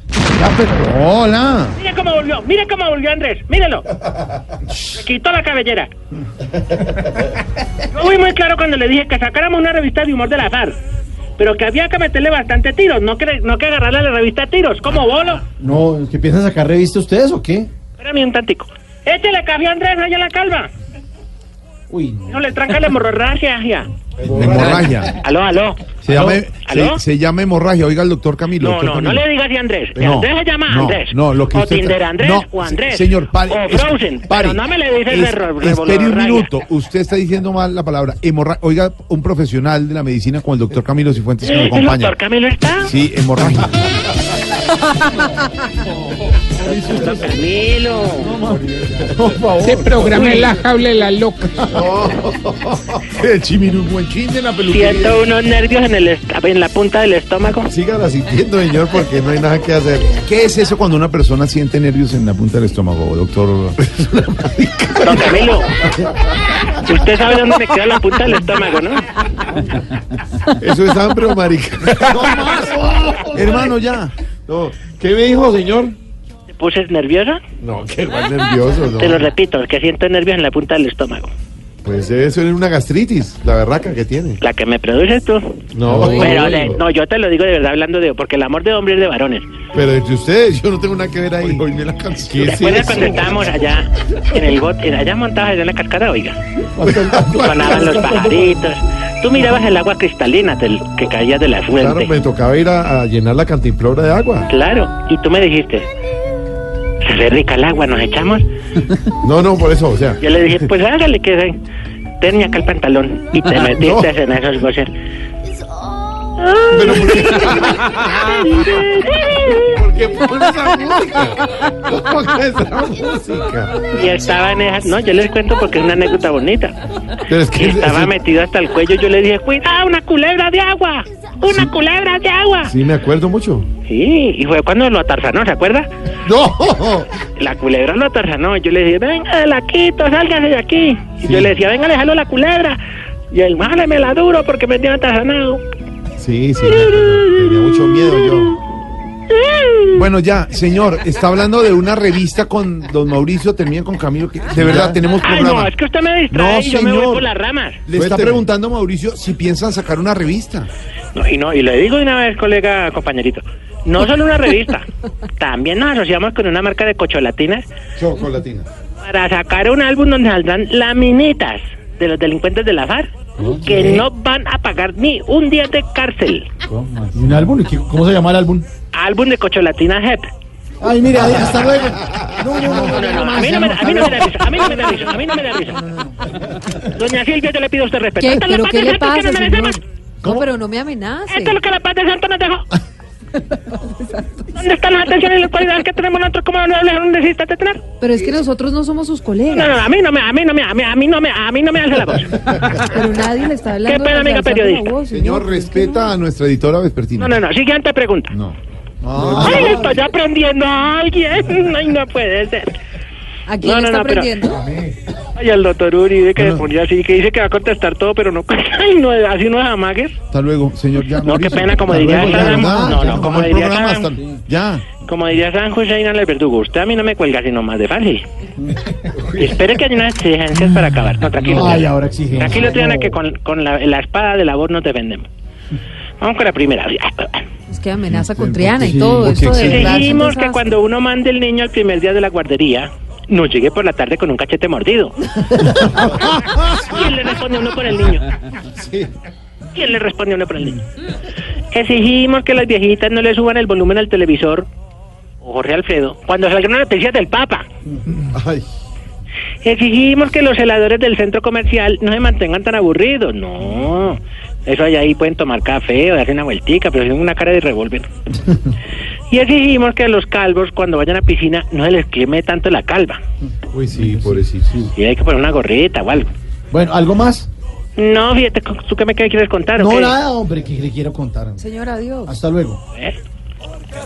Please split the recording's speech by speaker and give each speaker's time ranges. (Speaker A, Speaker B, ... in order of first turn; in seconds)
Speaker A: 0.2-0.9, 15.6-17.7, 21.9-22.4, 24.3-24.8, 173.7-174.0, 177.1-178.7, 180.8-184.6, 185.8-186.1, 209.2-209.9, 222.0-223.4, 228.6-229.3, 231.4-233.2, 238.8-239.5, 257.9-258.2, 273.4-274.5, 276.7-277.5, 279.8-281.7, 282.2-282.8
Speaker B: 0.8-1.7, 24.2-25.1, 26.0-29.2, 29.9-42.2, 42.8-43.9, 46.6-47.2, 48.2-50.5, 51.5-55.2, 57.7-66.0, 70.6-75.9, 77.6-79.2, 81.8-84.4, 85.7-86.8, 89.7-93.3, 96.8-98.5, 101.8-104.5, 109.2-110.2, 113.7-114.1, 116.7-118.8, 119.7-123.8, 127.3-128.1, 132.6-133.7, 136.2-137.1, 141.2-141.5, 146.2-148.5, 149.9-155.7, 156.3-157.3, 157.9-160.7, 168.0-168.7, 173.4-173.8, 176.7-177.1, 202.6-202.8, 205.1-207.4, 208.3-209.9, 216.4-216.6, 220.3-224.8, 238.0-239.9, 248.7-249.1, 258.3-258.6, 273.7-274.9
Speaker C: 1.8-3.9, 4.8-5.9, 7.9-10.8, 11.4-15.4, 18.0-20.7, 22.3-23.9, 25.1-27.0, 28.6-36.5, 41.4-42.9, 46.6-48.3, 54.6-57.7, 65.0-65.7, 66.7-69.0, 76.5-77.4, 79.0-81.3, 84.4-89.5, 92.4-96.4, 97.4-102.1, 104.5-105.9, 107.0-108.4, 110.2-111.6, 112.2-114.9, 116.4-119.8, 123.9-126.8, 127.5-132.7, 133.8-135.9, 137.4-145.6, 146.8-147.1, 149.3-150.0, 155.1-157.8, 161.1-167.7, 169.0-173.1, 173.6-176.5, 178.9-180.3, 182.7-185.8, 186.8-189.8, 191.3-192.7, 194.5-197.8, 199.5-202.4, 203.8-204.9, 207.2-208.3, 209.3-212.8, 213.6-214.3, 215.3-220.2, 221.2-224.2, 225.0-228.2, 229.4-235.3, 236.2-237.5, 239.5-248.3, 249.7-250.8, 251.7-254.7, 255.4-257.6, 259.6-268.1, 269.3-273.2, 274.9-276.3, 277.9-280.1
Speaker D: 49.6-51.5
Speaker E: 188.2-191.6, 193.6-194.2, 198.0-199.7, 202.9-206.2, 213.5-214.6, 237.7-240.7, 281.6-282.3